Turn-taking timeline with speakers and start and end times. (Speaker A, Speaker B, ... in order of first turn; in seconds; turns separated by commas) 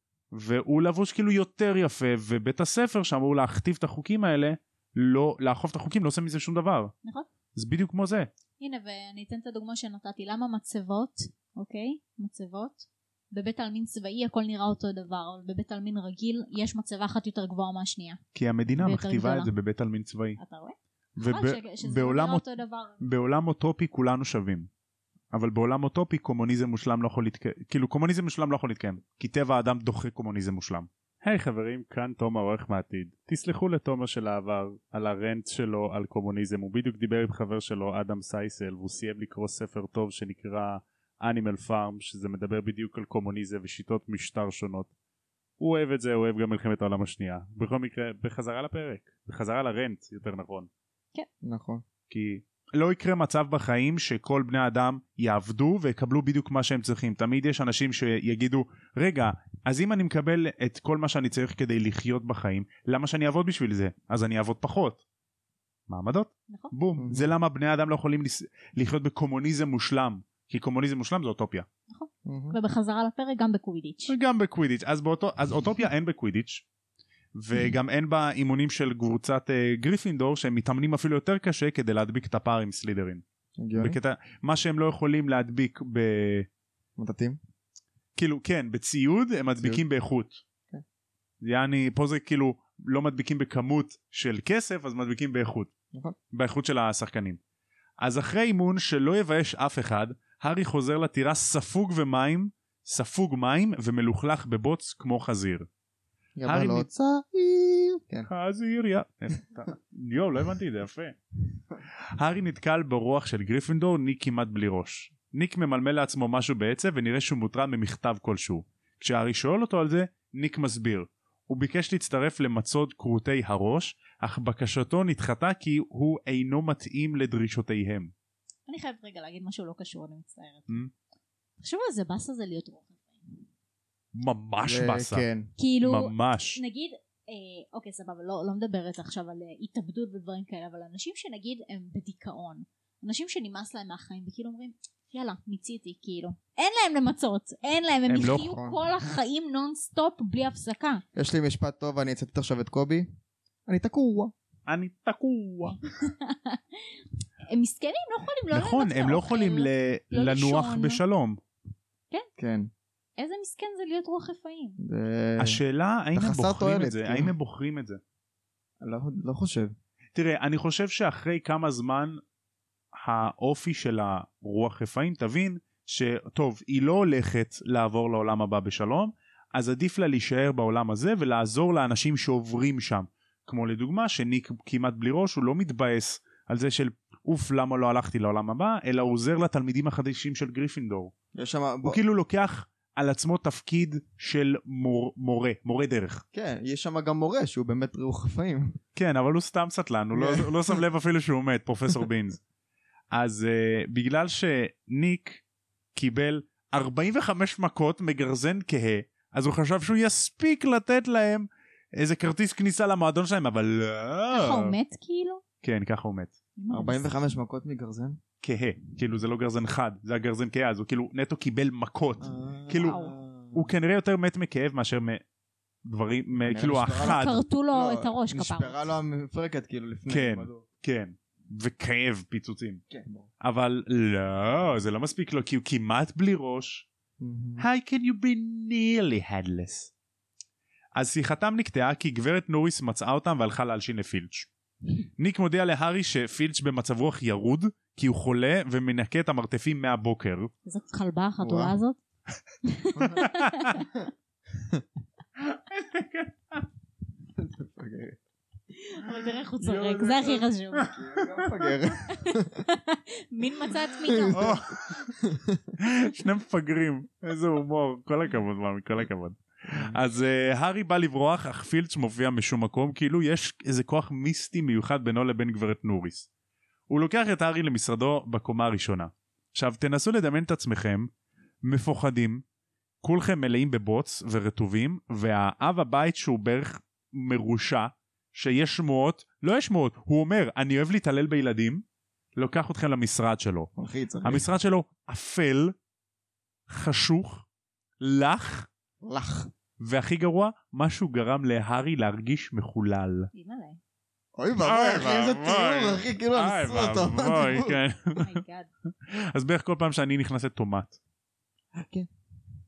Speaker A: 0.3-6.9, Speaker A: 7.5-8.3, Speaker B: 8.6-18.2, Speaker A: 18.3-20.4, Speaker B: 18.8-19.5, Speaker B: 20.4-23.0, Speaker A: 21.2-22.4, Speaker A: 23.0-24.7, Speaker A: 25.3-44.9, Speaker A: 45.6-50.7, Speaker C: 51.4-51.8, Speaker A: 52.1-65.0, Speaker A: 65.9-71.7, Speaker C: 67.0-67.3, Speaker B: 71.9-74.1, Speaker C: 72.2-72.6, Speaker A: 74.1-76.6, Speaker A: 77.3-83.2, Speaker C: 83.6-84.0, Speaker A: 83.8-86.5, Speaker C: 87.0-87.4, Speaker A: 88.1-90.4, Speaker A: 91.4-95.7, Speaker A: 96.3-97.4, Speaker A: 98.0-105.7, Speaker C: 106.4-108.3, Speaker A: 106.5-106.9, Speaker A: 108.3-111.2, Speaker A: 112.2-128.1, Speaker B: 128.7-130.8, Speaker B: 131.6-133.3, Speaker A: 134.1-135.2, Speaker C: 134.6-135.5, Speaker B: 135.6-151.0, Speaker A: 135.8-136.6, Speaker A: 148.1-148.5, Speaker C: 148.2-148.8, Speaker C: 151.1-153.1, Speaker C: 153.7-154.3, Speaker A: 154.7-155.8, Speaker B: 156.0-156.8, Speaker B: 157.5-161.0, Speaker A: 158.5-161.4, Speaker C: 162.4-162.7, Speaker B: 163.2-164.8, Speaker C: 164.8-165.6, Speaker A: 165.4-168.0, Speaker C: 166.1-167.3, Speaker C: 168.8-169.7, Speaker A: 170.1-172.2, Speaker A: 172.9-191.1, Speaker C: 191.3-192.0, Speaker A: 191.8-196.2, Speaker C: 196.3-198.8, Speaker A: 198.9-202.4, Speaker C: 200.1-200.8, Speaker A: 203.1-205.4, Speaker A: 205.9-214.7, Speaker B: 214.3-215.4, Speaker A: 215.6-216.3, Speaker B: 216.6-217.1, Speaker C: 216.7-218.2, Speaker A: 218.4-223.0, Speaker C: 222.2-223.7, Speaker B: 222.8-223.1, Speaker A: 223.5-225.2, Speaker A: 225.8-227.4, Speaker C: 226.4-230.6, Speaker B: 227.0-228.8, Speaker A: 230.1-232.8, Speaker C: 232.9-233.3, Speaker A: 233.4-236.9, Speaker C: 237.2-237.7, Speaker A: 237.6-239.9, Speaker A: 240.9-244.5, Speaker A: 245.2-250.5, Speaker B: 250.7-252.0, Speaker C: 251.4-251.7, Speaker B: 252.6-253.9, Speaker C: 252.9-254.8, Speaker A: 253.2-253.8, Speaker A: 255.4-256.6, Speaker C: 257.4-258.2, Speaker B: 258.7-260.9, Speaker A: 259.6-261.2, Speaker C: 260.0-262.6, Speaker B: 262.1-264.6, Speaker C: 264.0-265.7, Speaker A: 264.3-265.1, Speaker A: 265.8-276.3, Speaker C: 269.7-270.0, Speaker A: 276.9-281.1, Speaker A: 281.6-282.4, Speaker A: 283.0-291.8, Speaker A: 292.3-293.7, Speaker C: 293.8-294.4, Speaker A: 294.2-295.7, Speaker A: 296.7-297.4, Speaker A: 298.0-298.7, Speaker C: 299.0-299.5, Speaker A: 299.8-303.3, Speaker B: 303.3-303.8, Speaker C: 304.3-307.8, Speaker A: 304.6-308.4, Speaker B: 308.2-308.7, Speaker A: 309.1-311.0, Speaker C: 311.7-312.1